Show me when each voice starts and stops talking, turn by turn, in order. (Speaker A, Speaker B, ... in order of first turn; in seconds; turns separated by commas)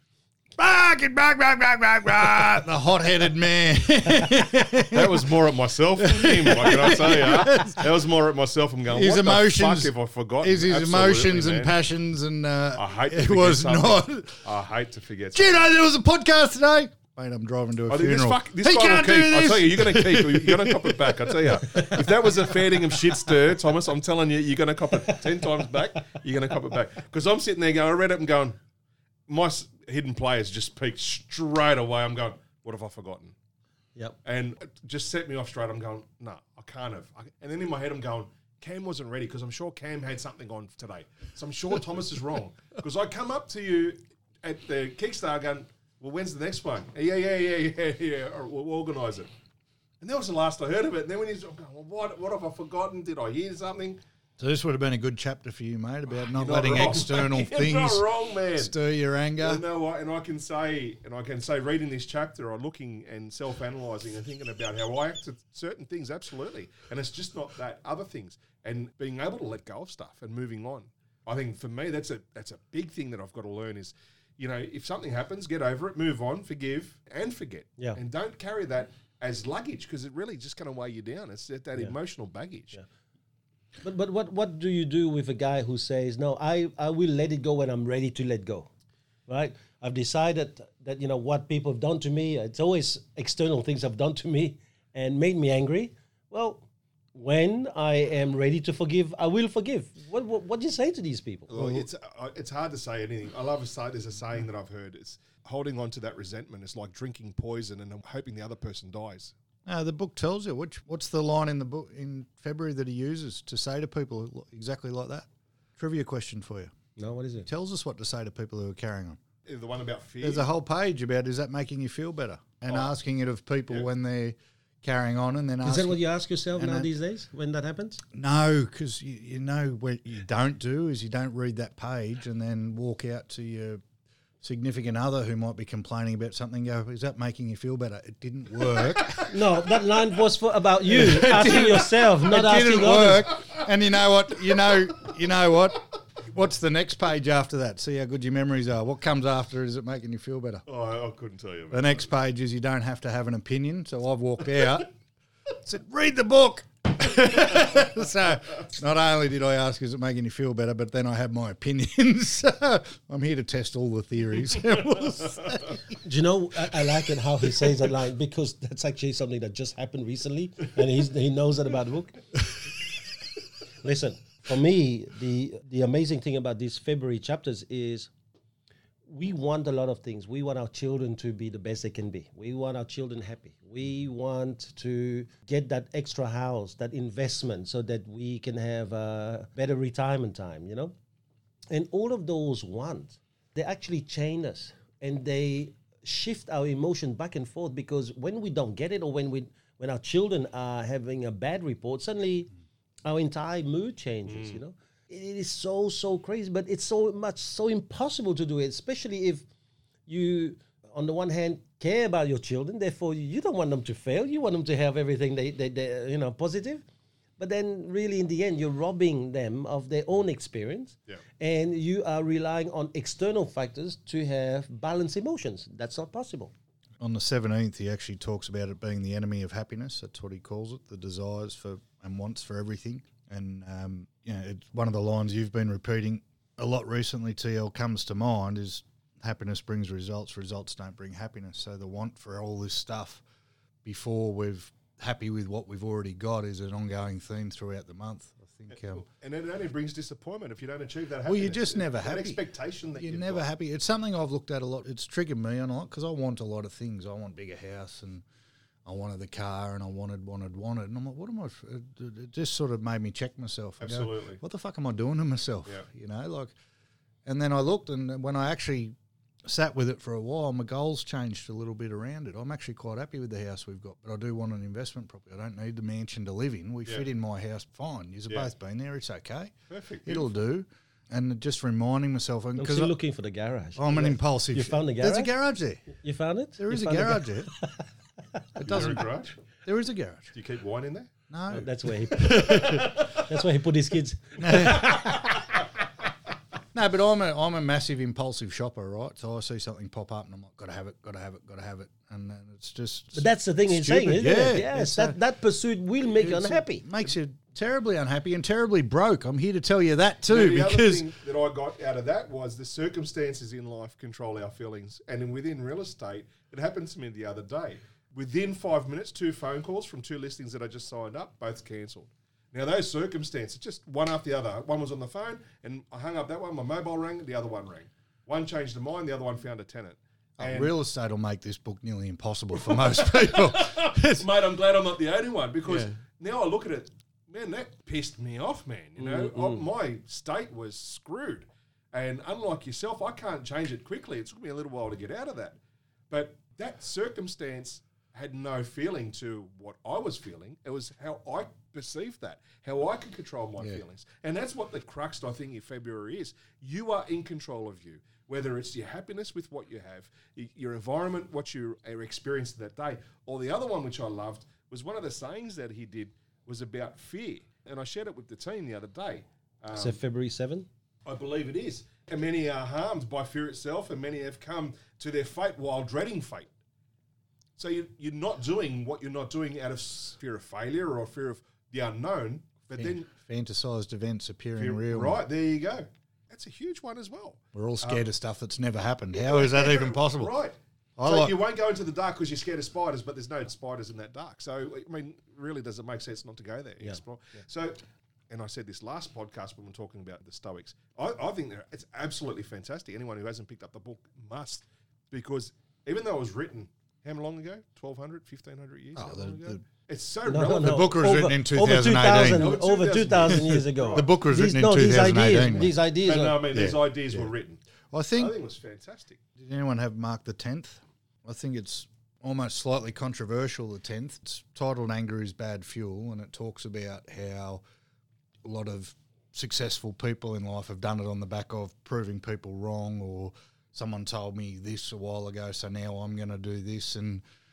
Speaker A: 0.6-5.3, Speaker B: 4.8-11.7, Speaker A: 6.0-7.9, Speaker A: 8.9-14.4, Speaker B: 12.8-15.6, Speaker A: 15.3-22.6, Speaker B: 17.9-28.6, Speaker B: 29.3-33.3, Speaker B: 34.2-49.3, Speaker B: 50.0-54.0, Speaker A: 54.4-59.6, Speaker B: 56.3-58.7, Speaker B: 59.4-82.8, Speaker C: 83.8-88.7, Speaker C: 89.3-101.5, Speaker B: 101.5-109.3, Speaker A: 101.5-101.8, Speaker A: 109.7-116.7, Speaker C: 117.0-117.5, Speaker A: 117.5-119.2, Speaker B: 119.5-120.5, Speaker A: 120.2-126.0, Speaker B: 122.7-122.9, Speaker C: 125.6-128.0, Speaker A: 126.5-126.9, Speaker A: 128.1-133.8, Speaker A: 134.4-139.4, Speaker C: 139.2-143.3, Speaker A: 140.9-150.6, Speaker B: 150.7-152.0, Speaker A: 151.7-154.9, Speaker A: 155.5-166.0, Speaker C: 166.0-172.2, Speaker A: 166.7-167.0, Speaker C: 173.8-178.1, Speaker C: 179.1-190.9, Speaker C: 191.7-202.5, Speaker C: 203.0-209.4, Speaker B: 204.3-204.6, Speaker C: 210.1-216.8, Speaker C: 217.4-226.5, Speaker A: 227.0-243.2, Speaker A: 243.8-249.0, Speaker B: 248.8-253.4, Speaker A: 251.2-252.4, Speaker A: 253.0-258.2, Speaker A: 258.8-266.5, Speaker B: 263.8-264.4, Speaker A: 267.2-268.9, Speaker A: 269.4-279.5, Speaker B: 279.7-280.3, Speaker A: 280.0-282.9, Speaker C: 282.6-285.3, Speaker A: 283.8-285.9, Speaker C: 285.9-287.9, Speaker A: 286.6-287.5, Speaker A: 288.6-290.3, Speaker B: 288.6-289.3, Speaker B: 290.3-291.1, Speaker A: 291.3-293.0, Speaker C: 291.5-295.5, Speaker B: 292.3-293.1, Speaker A: 294.4-295.2, Speaker A: 296.7-305.2, Speaker C: 303.1-306.9, Speaker A: 306.2-311.1, Speaker B: 310.3-330.7, Speaker A: 330.4-334.3, Speaker B: 332.6-345.6, Speaker C: 339.0-339.6, Speaker B: 346.1-370.0, Speaker C: 369.7-370.7, Speaker B: 371.1-376.5, Speaker B: 377.6-383.1, Speaker A: 382.8-385.2, Speaker B: 384.5-388.1, Speaker A: 387.5-390.3, Speaker B: 389.1-397.8, Speaker A: 391.0-391.3, Speaker B: 398.3-410.9, Speaker A: 408.9-409.6, Speaker C: 410.2-416.4, Speaker A: 410.6-412.5, Speaker B: 412.2-414.1, Speaker A: 413.9-415.7, Speaker B: 416.0-417.6, Speaker A: 416.5-417.3, Speaker A: 417.9-418.3, Speaker B: 418.1-419.2, Speaker A: 419.4-427.6, Speaker A: 428.4-437.2